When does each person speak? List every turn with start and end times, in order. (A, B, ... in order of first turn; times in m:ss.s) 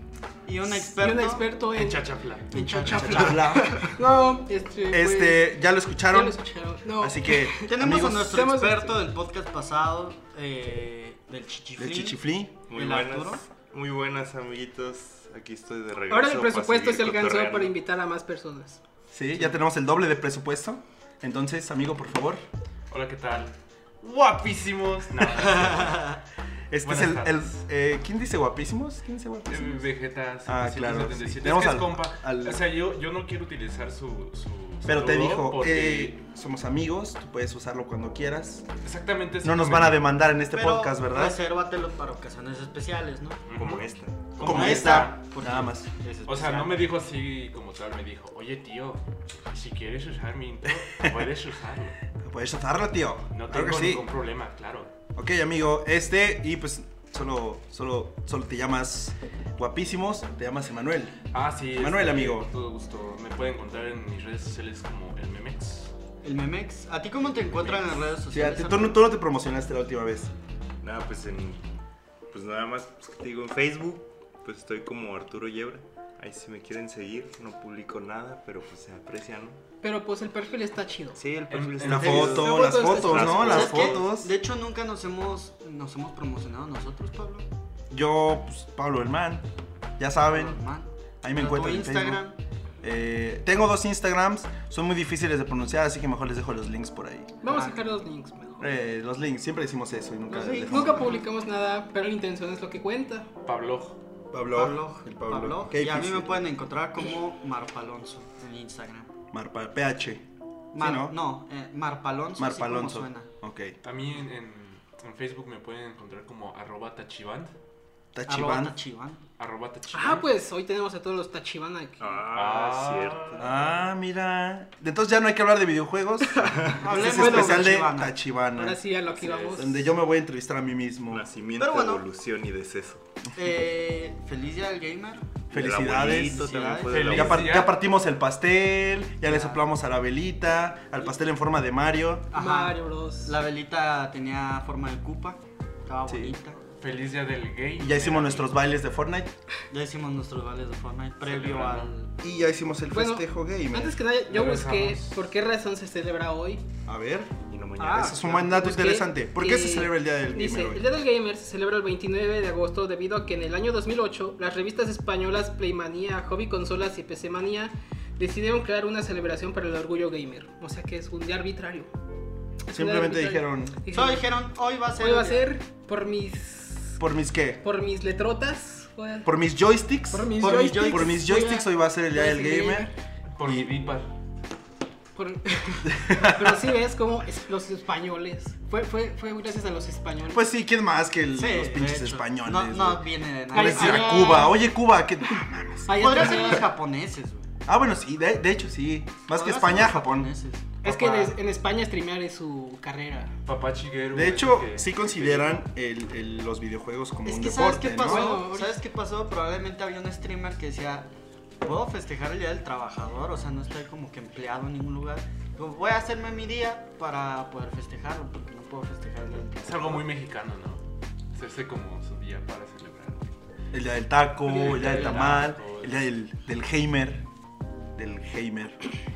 0:00.4-0:01.4 A
0:00.7-0:05.5 B
0:01.7-0:03.2 C
0:02.5-0:04.0 A
0:03.0-0:03.9 D
0:04.9-0:06.4 D
0:06.1-0:09.0 B
0:07.0-0:08.5 D
0:07.7-0:12.2 A
0:11.8-0:12.6 D
0:12.7-0:17.8 E
0:12.8-0:13.4 A
0:16.1-0:18.8 B
0:19.1-0:22.4 D
0:22.9-0:26.0 C
0:25.3-0:26.2 A
0:26.7-0:29.8 D
0:26.8-0:27.6 C
0:29.5-0:36.2 C
0:30.5-0:32.6 D
0:34.8-0:38.7 D
0:38.8-0:40.1 C
0:39.4-0:41.4 D
0:40.5-0:43.4 A
0:43.5-0:43.8 C
0:43.6-0:44.6 E
0:44.4-0:45.2 C
0:44.4-0:45.9 D
0:44.4-0:46.8 A
0:46.3-0:52.0 C
0:50.9-0:51.2 D
0:52.2-0:54.1 D
0:53.3-0:54.9 C
0:55.2-1:01.2 D
1:01.3-1:05.9 C
1:01.8-1:02.5 D
1:06.2-1:09.1 A
1:07.3-1:08.0 C
1:08.3-1:10.3 D
1:10.8-1:11.8 E
1:12.3-1:19.6 E
1:19.8-1:21.2 B
1:21.2-1:24.1 E
1:21.5-1:22.3 C
1:21.8-1:24.3 D
1:22.0-1:23.5 B
1:23.3-1:27.5 A
1:27.9-1:29.4 D
1:30.0-1:30.6 D
1:30.2-1:32.4 A
1:31.2-1:32.2 D
1:32.8-1:37.3 D
1:37.4-1:38.6 B
1:37.5-1:38.0 A
1:38.6-1:41.1 D
1:40.3-1:41.2 A
1:40.6-1:43.3 B
1:43.4-1:44.0 C
1:44.3-1:46.5 D
1:44.5-1:49.1 A
1:49.3-1:50.2 D
1:50.7-1:53.3 A
1:50.8-1:51.2 D
1:52.4-1:53.8 D
1:53.8-1:57.5 C
1:58.1-1:58.7 D
1:58.3-1:59.2 A
1:59.4-2:00.3 C
1:59.9-2:02.2 B
2:02.0-2:03.6 E
2:02.3-2:03.5 C
2:03.4-2:08.8 D
2:06.4-2:06.9 E
2:06.8-2:08.1 A
2:06.9-2:07.8 B
2:08.6-2:09.9 B
2:09.2-2:09.7 E
2:09.6-2:11.3 D
2:11.1-2:13.0 E
2:11.6-2:12.1 A
2:13.4-2:15.4 A
2:15.5-2:17.7 E
2:15.5-2:22.3 D
2:16.0-2:17.3 A
2:16.9-2:17.8 C
2:19.2-2:19.6 A
2:22.3-2:26.6 A
2:22.3-2:23.4 B
2:26.1-2:26.3 D
2:26.8-2:28.5 C
2:27.8-2:29.3 D
2:29.7-2:32.1 A
2:31.2-2:32.0 C
2:32.2-2:34.0 D
2:32.9-2:36.6 B
2:34.2-2:35.2 C
2:36.9-2:40.8 D
2:37.5-2:38.5 E
2:37.8-2:51.9 B
2:52.7-2:54.3 B
2:52.7-2:53.8 D
2:53.9-2:55.5 A
2:55.0-2:57.0 B
2:57.0-2:57.6 D
2:57.6-2:59.3 B
2:59.2-3:02.9 D
3:00.1-3:02.9 B
3:00.4-3:01.2 A
3:03.4-3:04.1 C
3:03.4-3:03.7 D
3:05.2-3:10.4 B
3:05.9-3:06.6 D
3:10.3-3:16.7 D
3:11.4-3:14.3 A
3:13.5-3:14.6 B
3:15.9-3:16.7 B
3:15.9-3:17.5 A
3:17.7-3:20.3 D
3:19.3-3:20.7 A
3:20.8-3:23.3 B
3:20.8-3:21.4 D
3:23.4-3:25.6 C
3:24.1-3:28.3 D
3:27.2-3:31.1 A
3:28.0-3:28.8 B
3:31.6-3:40.1 A
3:39.6-3:40.8 C
3:41.3-3:43.3 C
3:43.7-3:47.2 D
3:44.5-3:45.2 B
3:44.6-3:46.0 C
3:44.8-3:45.3 A
3:48.0-3:48.8 D